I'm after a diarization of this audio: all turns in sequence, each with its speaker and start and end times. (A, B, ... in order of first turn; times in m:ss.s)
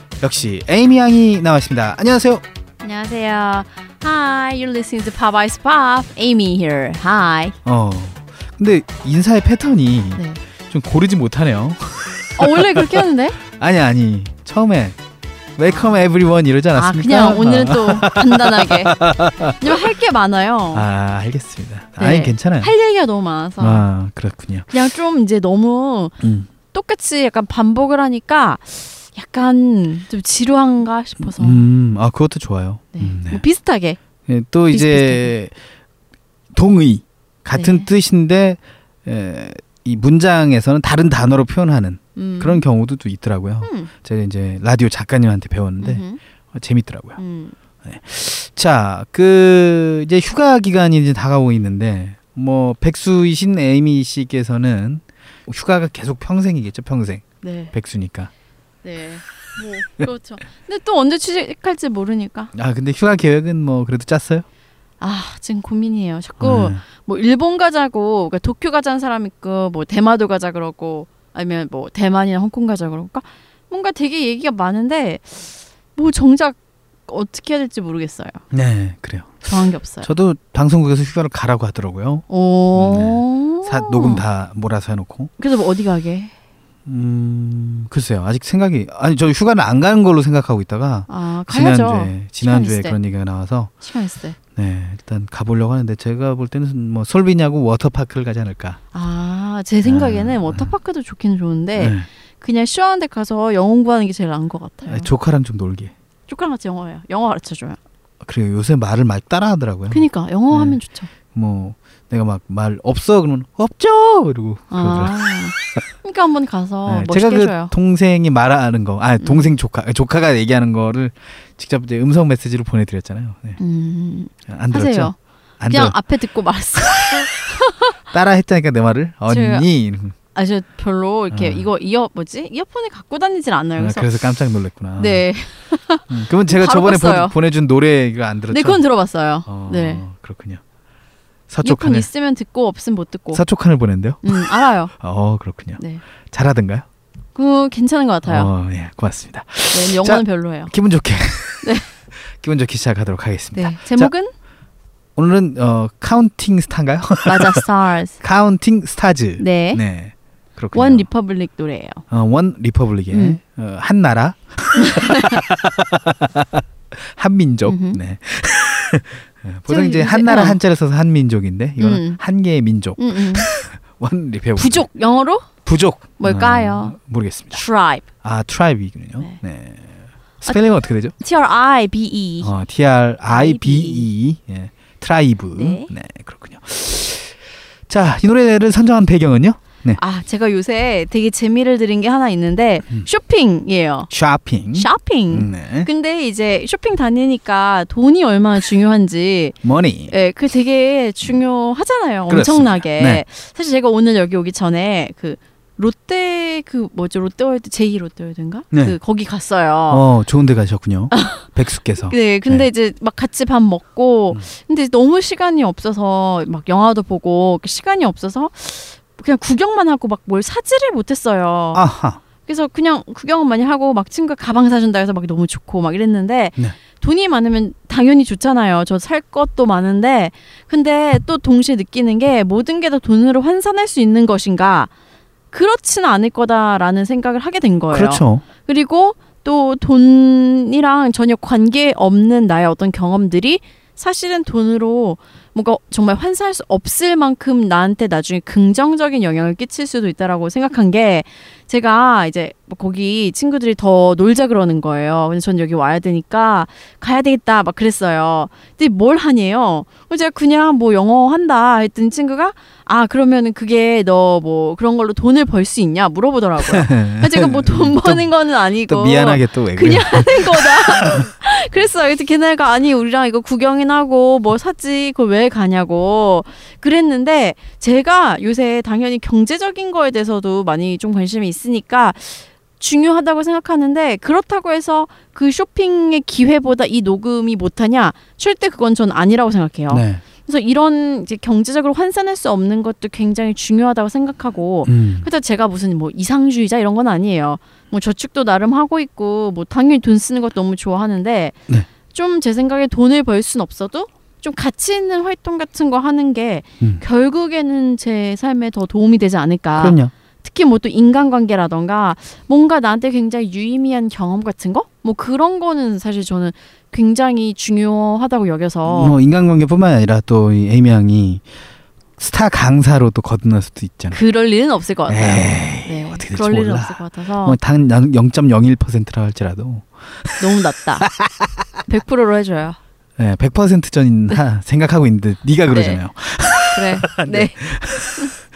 0:00.2-0:02.4 A
0:02.8-0:07.6 B
0:07.6-0:15.0 A
0:12.4-0:13.4 B
0:15.6-0:19.8 A
0:15.7-0:16.0 B
0:16.7-0:19.0 B
0:19.6-0:20.8 B
0:20.7-0:22.7 A
0:22.0-0:23.8 B
0:23.6-0:24.7 A
0:24.7-0:26.2 B
0:26.2-0:26.5 A
0:26.7-0:31.6 B
0:31.2-0:33.4 A
0:32.9-0:34.0 B
0:34.3-0:35.5 A
0:34.7-0:35.3 B
0:36.5-0:47.2 A
0:37.6-0:37.9 B
0:42.2-0:42.6 B
0:43.6-0:43.9 B
0:45.8-0:46.2 B
0:47.2-0:47.5 B
0:47.8-0:58.3 A
0:57.4-0:57.7 B
0:58.8-1:02.5 B
1:02.5-1:04.4 A
1:05.0-1:18.4 B
1:06.4-1:06.8 A
1:18.5-1:19.5 A
1:19.4-1:20.1 B
1:20.0-1:25.3 A
1:22.3-1:24.2 B
1:25.4-1:26.3 B
1:26.8-1:33.7 A
1:31.1-1:33.0 B
1:33.8-1:34.4 B
1:34.6-1:38.8 A
1:38.9-1:45.1 B
1:39.8-1:40.7 A
1:41.8-1:42.1 A
1:44.8-1:45.9 A
1:46.3-1:47.8 B
1:48.2-1:50.8 A
1:49.9-1:51.1 B
1:51.3-1:55.2 A
1:54.7-1:57.7 B
1:56.8-2:03.6 A
2:03.6-2:05.2 B
2:04.5-2:06.0 A
2:05.7-2:07.9 B
2:08.1-2:10.1 A
2:09.3-2:09.7 B
2:10.3-2:14.1 B
2:11.3-2:11.7 A
2:13.8-2:15.2 A
2:15.0-2:17.4 B
2:16.1-2:18.8 A
2:18.5-2:20.0 B
2:19.5-2:20.6 A
2:21.5-2:22.1 A
2:21.6-2:23.4 B
2:23.3-2:25.8 A
2:24.2-2:24.9 B
2:26.3-2:26.8 A
2:27.3-2:28.5 B
2:28.3-2:34.1 A
2:29.7-2:30.7 B
2:31.6-2:31.9 B
2:33.5-2:34.3 B
2:35.2-2:37.6 A
2:37.2-2:38.2 B
2:38.2-2:41.1 A
2:39.4-2:39.8 B
2:40.7-2:42.0 B
2:42.1-2:54.9 A
2:43.1-2:43.4 B
2:44.8-2:45.4 B
2:47.6-2:48.0 B
2:49.7-2:50.6 B
2:51.8-2:52.2 B
2:53.0-2:53.5 B
2:54.6-2:55.5 B
2:55.6-2:57.6 A
2:56.2-2:57.0 B
2:57.5-2:58.0 B
2:58.2-3:01.1 A
3:01.2-3:02.5 B
3:02.4-3:10.0 A
3:03.3-3:04.1 B
3:05.5-3:05.9 B
3:10.0-3:14.1 B
3:14.1-3:15.9 A
3:14.7-3:19.6 B
3:19.6-3:20.1 A
3:20.1-3:30.1 B
3:22.3-3:23.2 A
3:28.7-3:29.0 A
3:29.9-3:32.7 A
3:31.1-3:31.4 B
3:32.0-3:41.8 B
3:41.7-3:42.2 A
3:42.4-3:54.9 B
3:55.5-5:01.6 B
3:57.9-3:58.4 A
4:26.6-4:28.3 A
4:28.8-4:31.2 A
4:49.9-4:50.2 A
4:54.8-4:55.3 A
5:02.1-5:19.2 B
5:09.8-5:10.1 A
5:18.8-5:21.4 A
5:22.2-5:24.2 A
5:24.1-5:27.6 B
5:25.1-5:30.4 A
5:30.4-5:31.1 B
5:31.0-5:31.5 A
5:31.8-5:32.8 B
5:33.2-5:38.2 A
5:35.7-5:36.0 B
5:36.7-5:37.6 B